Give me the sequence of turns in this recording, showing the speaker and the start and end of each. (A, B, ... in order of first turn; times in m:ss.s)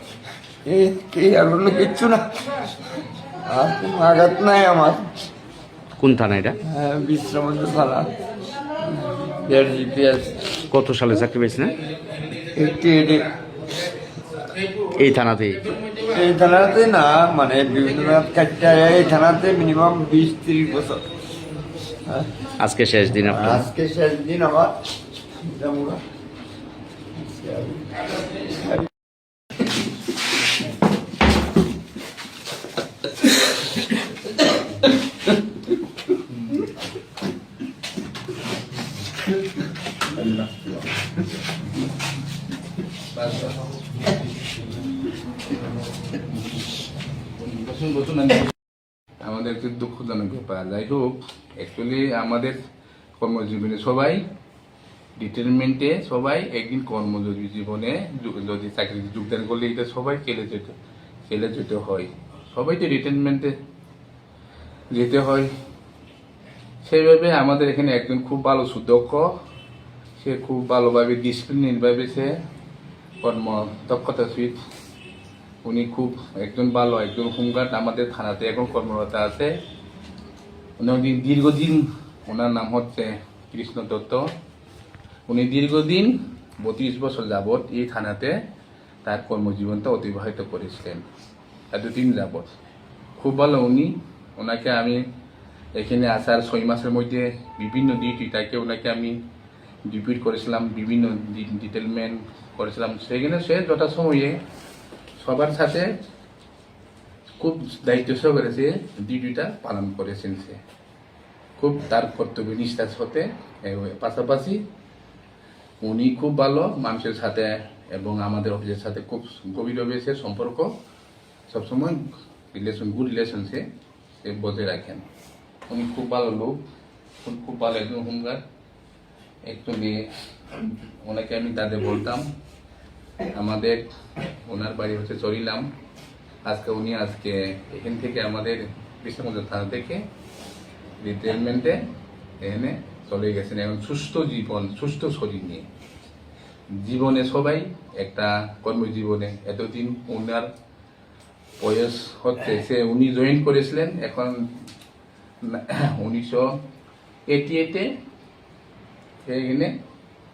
0:00.6-0:02.3 A
0:03.5-0:05.1 A
0:06.0-0:06.6 B
0:06.7-0:08.1 A
0:08.9-0:10.4 A
0:10.7-0:11.7 B
0:12.5-0:13.3 A
0:14.9-0:15.7 B
0:16.1-0:21.1 A
0:22.1-0:22.3 A
0:22.6-0:23.6 B
0:23.2-0:24.7 A
0:25.4-0:26.0 A
0:27.2-0:28.9 A
0:36.3-0:36.7 C
0:40.2-0:40.7 C
0:43.1-0:43.6 C
0:46.3-0:46.6 C
0:47.4-0:48.5 C
0:49.2-0:52.6 C
0:53.2-0:54.2 C
0:55.2-1:00.7 C
1:01.3-1:03.5 C
1:04.9-1:05.5 C
1:06.8-1:09.3 C
1:10.2-1:12.3 C
1:13.2-1:14.5 C
1:15.6-1:19.5 C
1:20.8-1:24.2 C
1:25.3-1:26.1 C
1:26.6-1:28.3 C
1:29.0-1:31.0 C
1:31.7-1:32.5 C
1:33.2-1:35.0 C
1:35.8-1:39.1 C
1:39.9-1:44.4 C
1:45.2-1:45.9 C
1:47.4-1:50.6 C
1:51.6-1:54.6 C
1:55.8-2:00.7 C
2:01.5-2:02.0 C
2:02.5-2:03.6 C
2:04.2-2:05.0 C
2:05.7-2:06.6 C
2:07.2-2:08.4 C
2:09.5-2:10.0 C
2:10.6-2:12.2 C
2:13.3-2:13.9 C
2:14.4-2:15.6 C
2:16.4-2:20.0 C
2:21.0-2:21.8 C
2:22.4-2:25.7 C
2:26.8-2:30.5 C
2:31.6-2:34.4 C
2:35.4-2:36.5 C
2:37.3-2:37.8 C
2:39.2-2:39.7 C